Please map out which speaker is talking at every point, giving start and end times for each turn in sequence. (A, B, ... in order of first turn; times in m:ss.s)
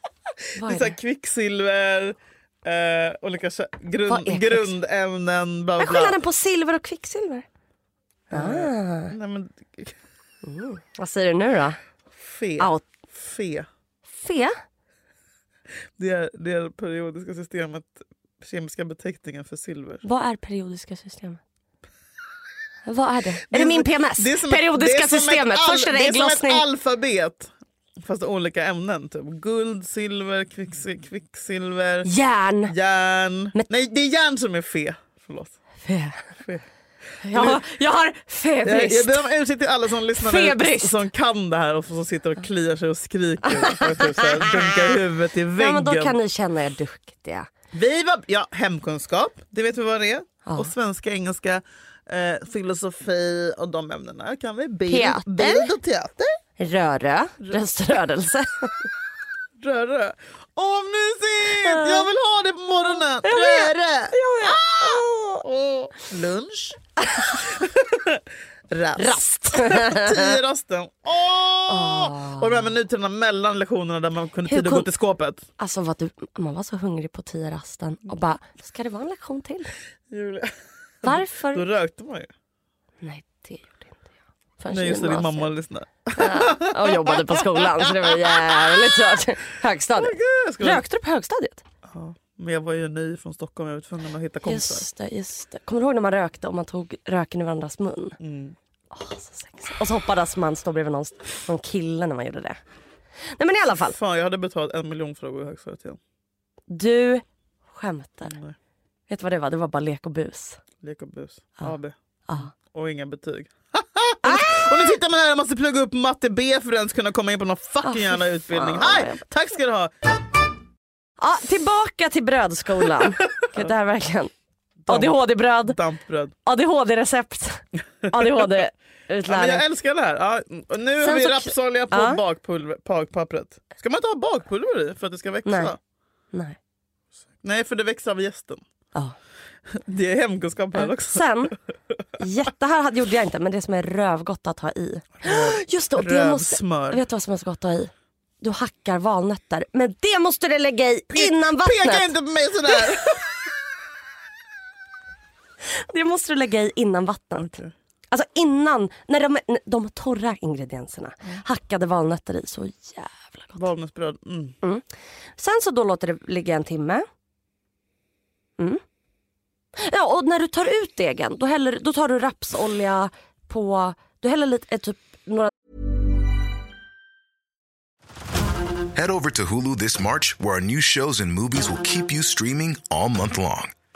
0:00.6-0:01.0 A
0:00.6-0:06.2 B
0:04.1-0:04.7 A
0:05.8-0:07.4 A
0:08.3-0:09.9 B
0:08.3-0:09.1 A
0:10.4-0:11.8 A
0:12.2-0:13.7 B
0:12.6-0:12.8 A
0:14.1-0:14.6 A
0:16.0-0:20.0 B
0:20.0-0:21.4 A
0:22.8-0:26.6 A
0:23.5-0:27.5 B
0:28.0-0:32.1 B
0:32.0-0:32.7 A
0:32.6-0:35.6 B
0:35.8-0:36.3 A
0:36.4-0:36.6 B
0:37.2-0:39.2 A
0:37.3-0:37.6 B
0:38.6-0:46.2 B
0:40.2-0:41.0 A
0:43.5-0:44.9 A
0:45.6-0:47.5 A
0:47.7-0:56.4 B
0:50.4-0:50.7 A
0:54.9-0:55.7 A
0:56.6-0:58.8 A
0:59.6-1:06.8 B
1:01.6-1:02.1 A
1:03.2-1:05.4 A
1:07.0-1:07.4 A
1:07.4-1:15.4 B
1:09.0-1:10.4 A
1:11.7-1:12.7 A
1:14.5-1:14.9 A
1:15.6-1:19.7 A
1:20.1-1:22.3 B
1:21.0-1:21.6 A
1:23.0-1:24.0 A
1:24.6-1:25.5 A
1:24.7-1:28.9 B
1:26.1-1:31.6 A
1:29.9-1:30.8 B
1:31.9-1:34.8 B
1:34.4-1:38.2 A
1:38.2-1:38.6 B
1:38.9-1:42.6 A
1:43.4-1:44.0 A
1:43.8-1:46.0 B
1:46.7-1:48.4 A
1:48.3-1:48.5 B
1:49.1-1:50.6 A
1:50.8-1:51.9 B
1:52.5-1:59.9 B
1:54.2-1:54.7 A
1:57.8-1:59.2 A
2:01.2-2:04.3 A
2:03.3-2:03.6 B
2:04.8-2:06.3 B
2:04.9-2:05.8 A
2:06.4-2:09.6 A
2:08.1-2:08.5 B
2:09.3-2:15.8 B
2:11.0-2:12.2 A
2:15.4-2:15.7 A
2:17.4-2:18.6 B
2:19.8-2:21.6 B
2:20.7-2:21.5 A
2:22.2-2:32.1 A
2:25.2-2:27.0 B
2:31.1-2:33.3 B
2:32.7-2:33.2 A
2:35.7-2:37.6 A
2:37.4-2:37.7 B
2:38.1-2:43.6 A
2:43.6-2:44.6 B
2:45.4-2:47.1 A
2:49.8-2:55.5 A
2:58.9-3:03.7 C